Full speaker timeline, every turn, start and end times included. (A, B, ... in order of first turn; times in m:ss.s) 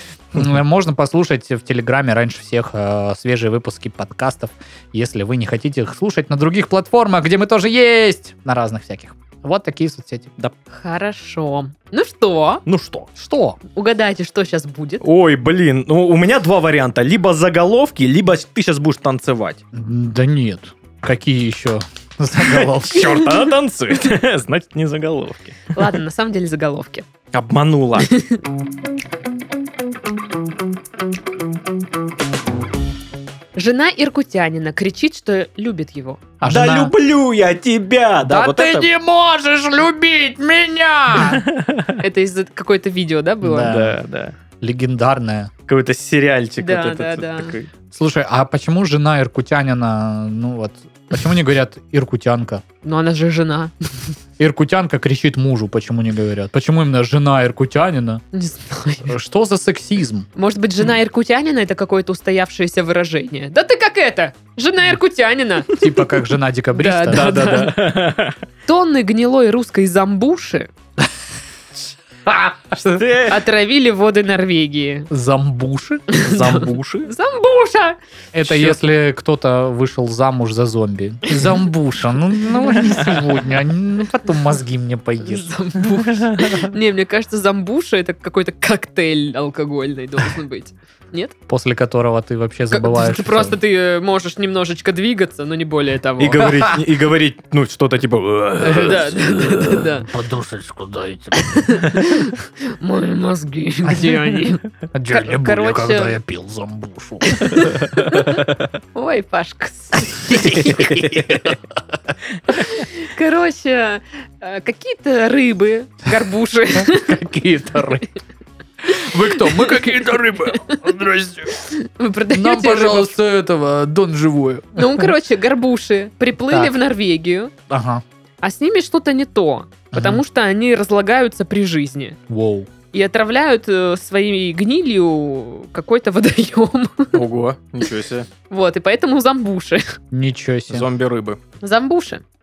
0:00.3-0:10.3 A
0:10.7-0:12.6 B
0:12.6-0:13.1 C
0:13.2-0:13.6 A
0:13.7-0:15.0 B
0:15.0-0:19.6 C
0:19.7-0:23.2 A
0:22.6-0:25.8 C
0:25.7-0:27.1 B
0:27.3-0:28.1 C
0:28.0-0:28.4 B
0:33.6-0:36.2 B
0:36.4-0:36.9 A
0:36.4-0:38.9 C
0:38.2-0:41.4 A
0:41.2-0:42.0 C
0:42.0-0:43.7 B
0:43.4-0:44.0 A
0:43.6-0:44.3 C
0:44.6-0:45.5 A
0:45.7-0:47.7 C
0:46.6-0:47.5 B
0:47.9-0:52.6 A
0:52.8-0:53.7 B
0:54.4-0:58.2 A
0:58.3-0:59.1 B
0:59.1-1:00.2 A
1:00.4-1:06.0 B
1:05.7-1:07.7 A
1:06.8-1:07.8 B
1:07.1-1:08.4 C
1:08.7-1:10.7 B
1:12.2-1:13.1 A
1:13.0-1:13.4 C
1:13.3-1:15.1 B
1:15.1-1:16.7 A
1:16.1-1:18.0 B
1:16.3-1:17.1 C
1:18.3-1:25.6 A
1:18.4-1:18.8 C
1:25.2-1:31.3 B
1:26.1-1:26.6 C
1:31.5-1:33.6 A
1:32.7-1:36.5 B
1:36.2-1:39.1 C
1:36.5-1:36.8 A
1:38.6-1:40.1 B
1:38.6-1:41.7 A
1:41.3-1:46.2 B
1:44.9-1:47.7 A
1:47.2-1:48.4 B
1:48.9-1:51.1 B
1:50.1-1:51.6 A
1:52.6-1:57.2 B
1:56.7-1:58.0 A
1:58.8-2:01.6 A
1:58.9-2:00.0 B
2:00.5-2:00.8 B
2:01.5-2:03.2 B
2:02.3-2:05.2 A
2:04.8-2:07.5 B
2:06.5-2:06.7 A
2:07.7-2:08.0 A
2:08.4-2:12.2 B
2:09.9-2:10.2 A
2:12.3-2:12.7 A
2:12.9-2:17.2 B
2:17.1-2:18.3 C
2:18.5-2:20.0 B
2:20.1-2:20.9 A
2:20.7-2:21.4 C
2:21.6-2:22.2 B